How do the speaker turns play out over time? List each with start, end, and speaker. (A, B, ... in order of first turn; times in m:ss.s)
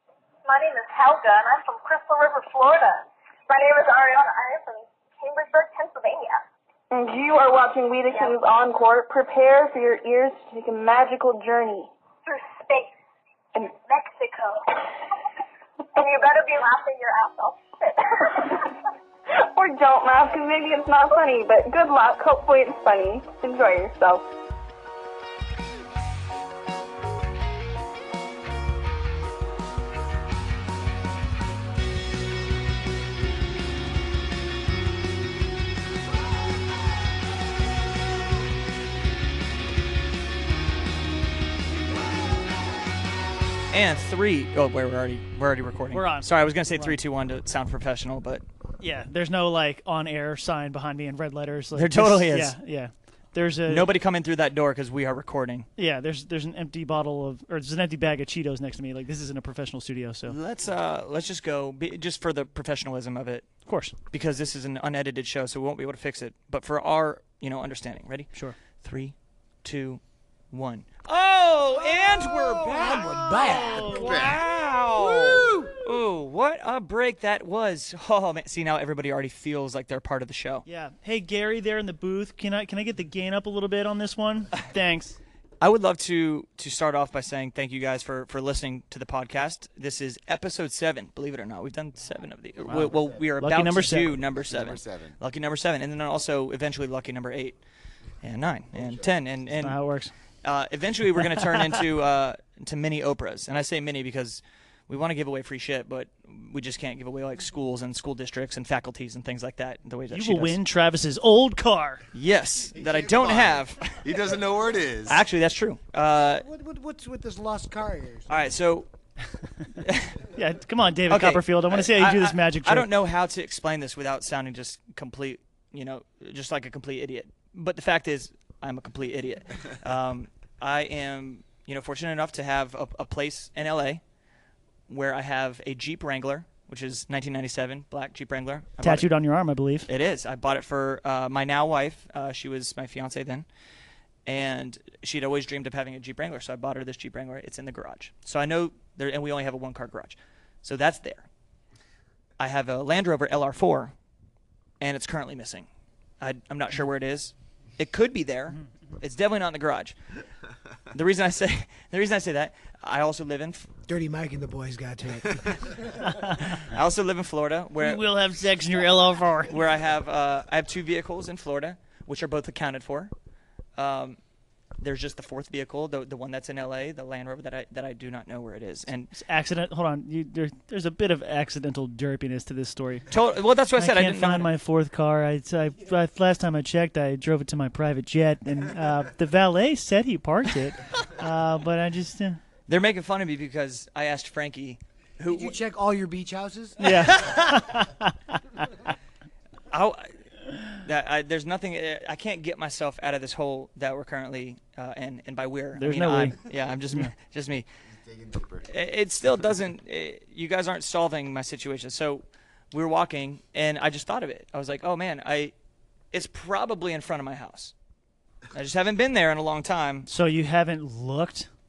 0:00.4-0:06.4 A
0:06.9-0:11.9 B
0:12.2-0:12.9 A
0:13.6-0:15.1 A
0:15.9-0:18.7 A
0:18.3-0:18.6 B
0:19.4-0:24.2 B
0:43.7-0:48.4 C
0:45.9-0:47.0 D
0:48.8-0:53.9 D
0:51.8-0:52.6 C
0:53.7-0:55.7 C
0:55.8-1:00.4 D
1:00.3-1:03.5 C
1:03.7-1:04.0 D
1:04.1-1:08.3 C
1:08.8-1:20.6 C
1:12.5-1:14.3 E
1:13.3-1:14.2 D
1:14.0-1:14.4 F
1:20.6-1:25.2 D
1:25.6-1:37.6 C
1:32.6-1:34.1 D
1:34.3-1:35.2 F
1:38.2-1:39.8 C
1:38.7-1:39.1 F
1:39.6-1:40.1 D
1:40.4-1:50.6 C
1:50.1-1:52.0 D
1:52.1-1:53.8 C
1:52.8-1:55.2 F
1:55.1-1:56.4 C
1:56.2-1:58.3 E
1:58.3-1:58.9 C
1:59.9-2:00.2 C
2:00.3-2:02.9 D
2:01.1-2:14.0 C
2:14.9-2:19.1 C
2:18.8-2:19.9 D
2:19.9-2:23.5 C
2:24.3-2:31.3 C
2:32.4-2:33.9 C
2:34.8-2:35.7 C
2:36.2-2:40.0 C
2:40.9-2:43.7 C
2:43.9-2:45.9 E
2:46.1-2:46.5 D
2:46.6-2:48.1 C
2:47.8-2:49.5 D
2:49.5-2:53.1 C
2:53.8-2:54.2 C
2:54.8-2:59.1 C
2:59.1-3:03.1 D
3:03.1-3:04.5 C
3:03.8-3:12.4 D
3:12.7-3:15.6 C
3:15.3-3:16.9 E
3:16.8-3:18.1 D
3:19.7-3:20.1 C
3:20.8-3:27.7 C
3:25.7-3:26.4 D
3:27.9-3:28.7 F
3:28.7-3:35.5 C
3:36.1-3:37.7 C
3:38.5-3:40.1 C
3:40.1-3:41.5 D